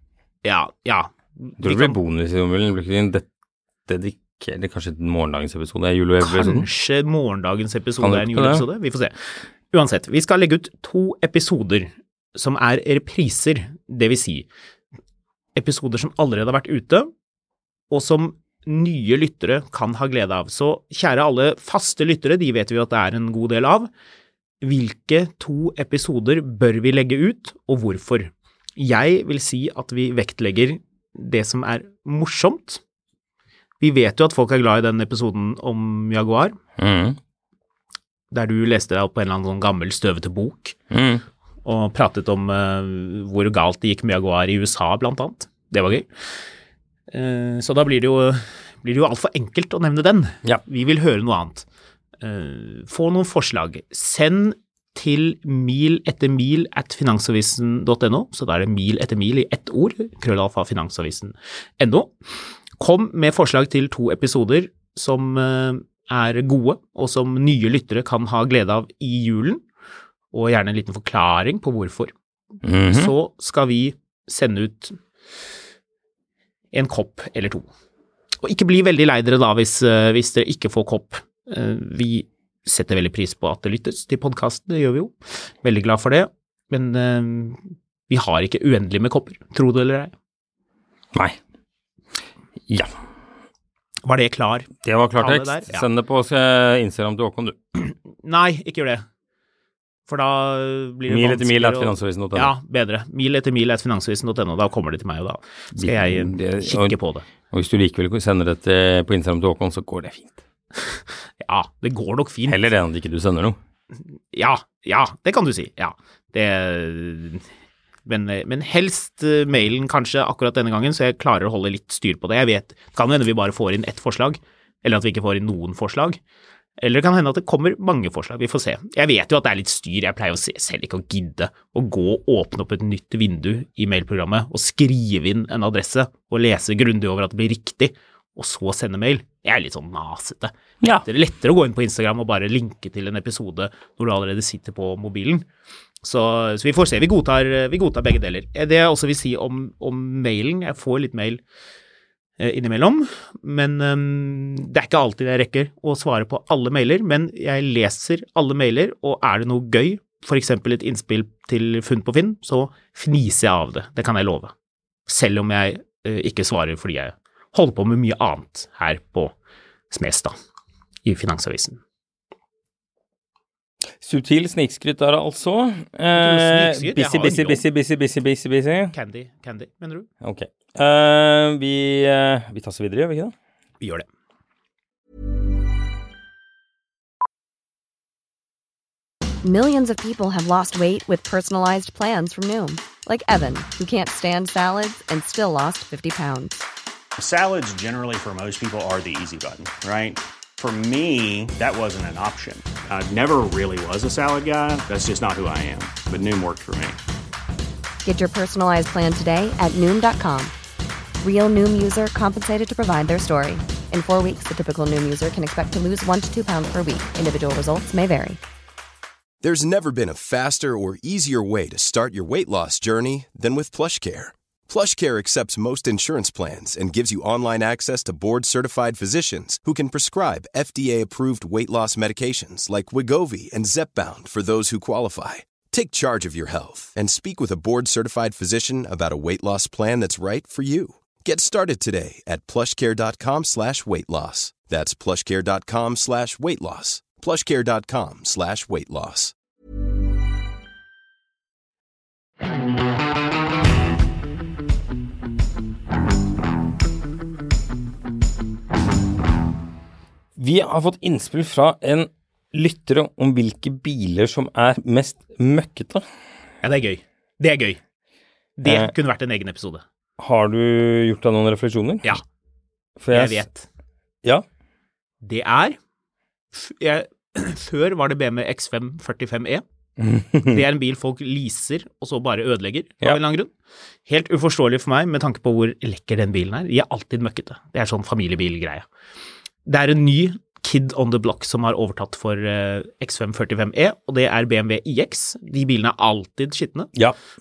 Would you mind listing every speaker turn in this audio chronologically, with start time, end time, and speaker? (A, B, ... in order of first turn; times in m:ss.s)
0:00.4-0:02.0 A
0:01.6-0:03.2 B
0:03.9-0:06.7 B
0:06.2-0:14.5 A
0:08.0-0:08.6 B
0:15.6-0:17.1 A
0:17.9-0:23.9 A
0:24.6-0:32.8 A
0:33.8-0:36.6 A
0:36.8-0:37.2 B
0:38.3-0:40.8 A
0:40.9-0:41.2 B
0:41.6-0:46.1 A
0:47.1-0:51.6 A
0:52.2-1:02.1 A
1:02.8-1:09.6 A
1:10.3-1:12.1 A
1:12.6-1:13.1 B
1:12.9-1:15.0 A
1:16.7-1:17.7 A
1:18.4-1:30.1 A
1:32.7-1:32.9 B
1:34.0-1:35.8 A
1:34.8-1:37.6 B
1:37.8-1:39.0 A
1:40.1-1:47.2 A
1:41.1-1:42.5 B
1:45.7-1:47.0 B
1:47.5-1:50.4 B
1:51.4-1:52.6 A
1:52.5-1:53.6 B
1:54.3-1:57.4 A
1:58.1-2:06.2 A
2:06.8-2:20.5 A
2:21.0-2:25.4 A
2:26.0-2:31.4 A
2:32.4-2:44.5 A
2:45.1-2:49.3 A
2:49.9-2:50.3 A
2:51.0-2:51.8 A
2:54.0-2:58.9 B
2:56.1-2:57.6 A
2:58.9-3:00.1 A
3:00.2-3:03.3 B
3:03.8-3:04.0 A
3:09.4-3:16.6 C
3:17.2-3:27.0 D
3:28.0-3:30.5 C
3:31.2-3:38.4 C
3:39.4-4:09.3 E
4:20.4-4:26.0 B
4:26.6-4:27.8 A
4:28.6-4:29.8 A
4:28.6-4:28.9 B
4:30.2-4:32.2 B
4:33.0-4:33.4 B
4:33.1-4:33.7 A
4:35.2-4:35.8 A
4:36.5-4:39.6 A
4:40.0-4:40.6 B
4:40.4-4:43.5 A
4:44.1-4:48.8 A
4:49.6-4:56.9 A